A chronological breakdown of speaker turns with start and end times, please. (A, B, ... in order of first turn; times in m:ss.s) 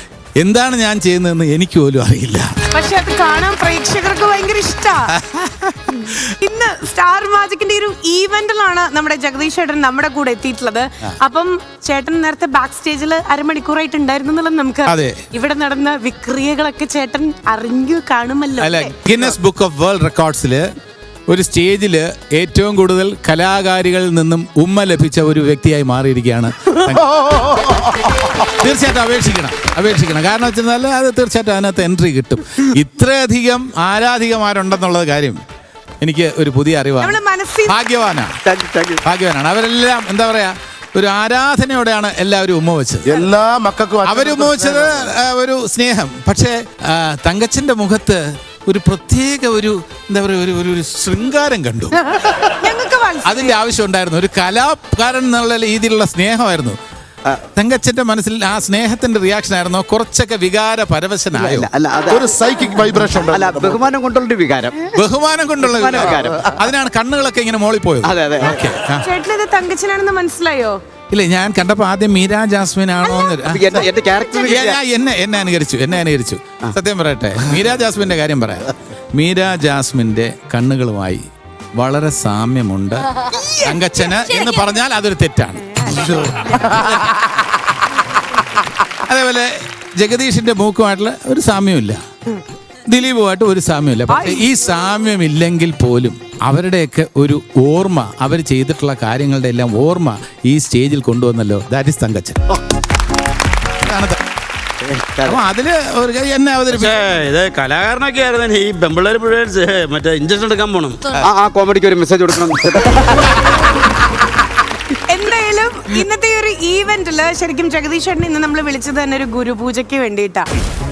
0:00.4-0:02.5 A
0:02.7-0:05.2 B
0:05.1-0:06.1 A
0:06.2-0:19.2 B
0:14.9-0:15.2 A
0:18.6-0:20.6 A
0:21.3-0:27.1 A
0:26.9-0:28.4 C
0:28.4-0:35.4 A
0:36.0-0:38.4 A
0:37.0-0:37.8 B
0:38.4-0:39.0 D
0:39.0-0:43.1 A
0:43.0-0:45.1 C
0:44.0-0:52.4 A
0:52.2-0:53.6 B
0:53.2-0:56.8 A
0:57.5-1:01.7 A
1:01.3-1:02.3 D
1:02.1-1:03.8 C
1:03.3-1:04.9 D
1:04.9-1:09.0 A
1:05.6-1:06.5 D
1:08.0-1:08.7 D
1:08.9-1:10.8 B
1:11.1-1:13.9 A
1:13.4-1:14.8 D
1:14.4-1:28.0 A
1:28.6-1:32.0 A
1:32.9-1:42.5 A
1:43.8-1:44.2 A
1:44.8-1:45.4 D
1:45.2-1:47.0 A
1:46.7-1:51.1 E
1:51.1-1:53.4 D
1:55.1-2:00.5 B